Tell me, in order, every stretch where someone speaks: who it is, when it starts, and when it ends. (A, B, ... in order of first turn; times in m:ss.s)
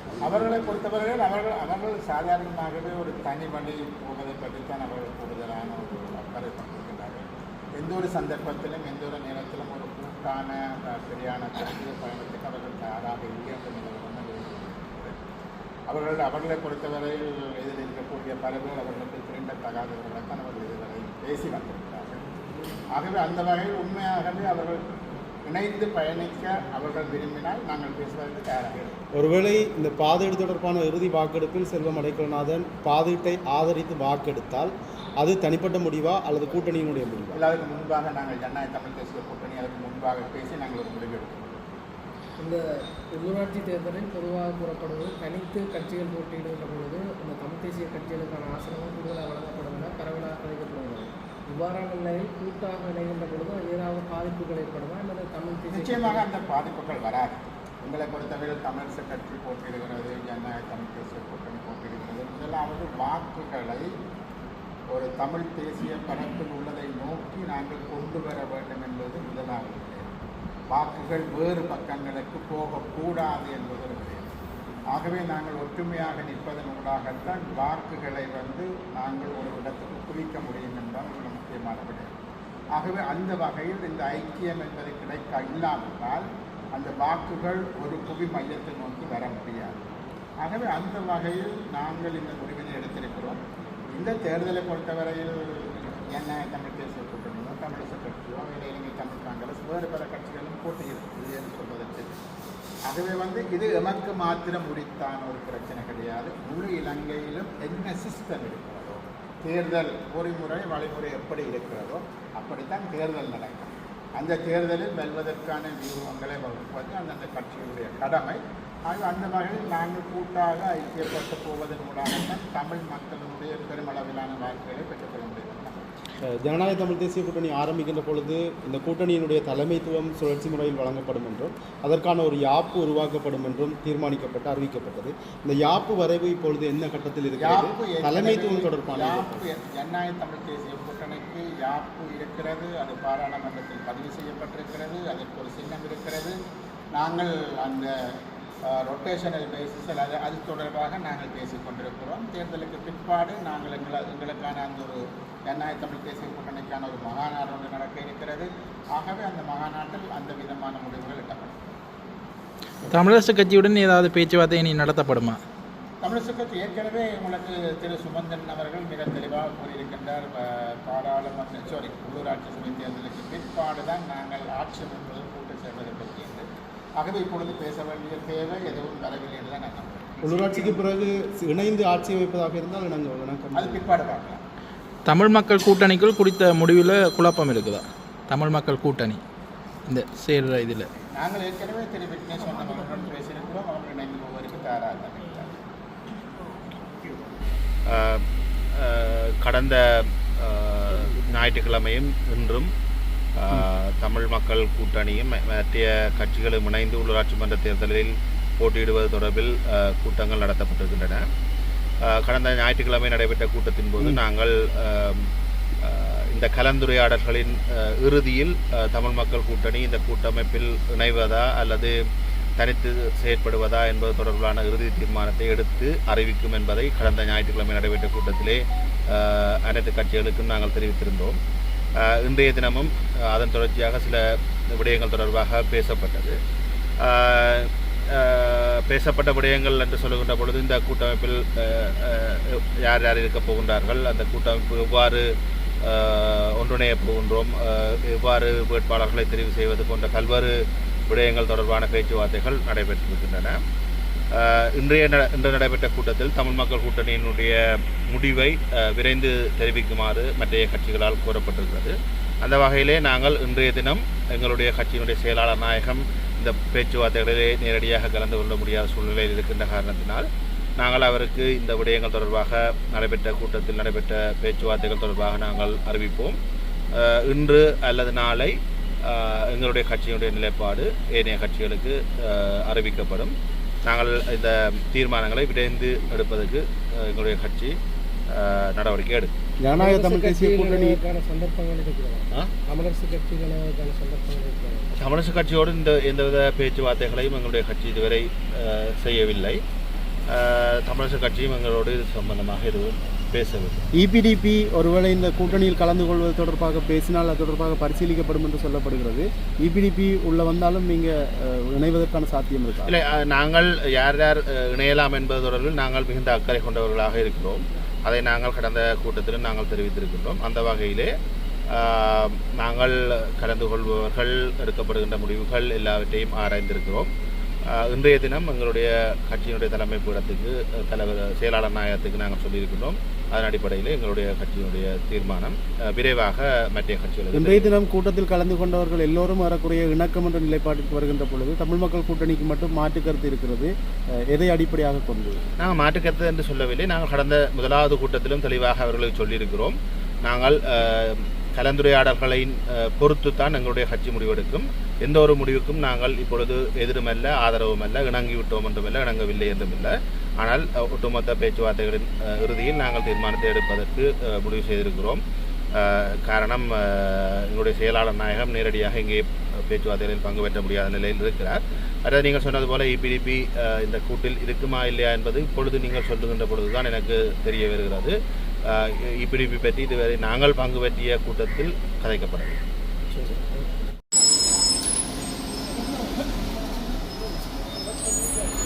0:00.2-0:15.2 A
0:15.9-0:22.2 A
0:22.9-0:24.8 A
0:25.4-0:28.9 A
0:29.1-0:37.5 B
0:37.3-0:41.6 A
0:43.1-0:56.2 C
0:55.7-1:03.9 A
1:04.9-1:10.1 A
1:10.7-1:14.2 A
1:14.9-1:22.1 A
1:22.7-1:29.8 A
1:30.4-1:42.1 A
1:42.9-2:05.8 A
2:06.2-2:19.4 B
2:17.4-2:26.4 A
2:26.9-2:27.9 A
2:28.7-2:41.7 A
2:42.9-2:45.4 D
2:46.0-2:56.4 A
2:57.0-3:00.8 A
3:00.2-3:04.0 B
3:03.5-3:04.4 A
3:05.1-3:09.2 D
3:09.9-3:10.9 D
3:11.1-3:15.6 A
3:17.9-3:18.2 E
3:18.8-3:19.8 E
3:20.4-3:22.7 E
3:23.4-3:31.2 E
3:32.1-3:35.3 E
3:35.8-3:42.0 E
3:42.6-3:51.4 E
3:52.0-3:56.4 E
3:57.0-4:05.2 E
4:05.8-4:10.5 E
4:11.1-4:13.6 E
4:14.3-4:30.3 E
4:30.8-4:36.4 E
4:36.9-4:43.3 E
4:43.8-4:47.8 E
4:48.3-4:49.3 E
4:49.6-4:51.0 B
4:49.8-4:54.9 C
4:55.0-4:59.6 E
5:00.3-5:03.8 E
5:03.9-5:13.0 B
5:12.8-5:21.1 E
5:21.7-5:27.1 E
5:27.7-5:37.7 E
5:37.3-5:43.7 B
5:44.3-5:45.4 B
5:45.6-6:05.2 E
6:05.7-6:18.1 E
6:18.6-6:22.6 E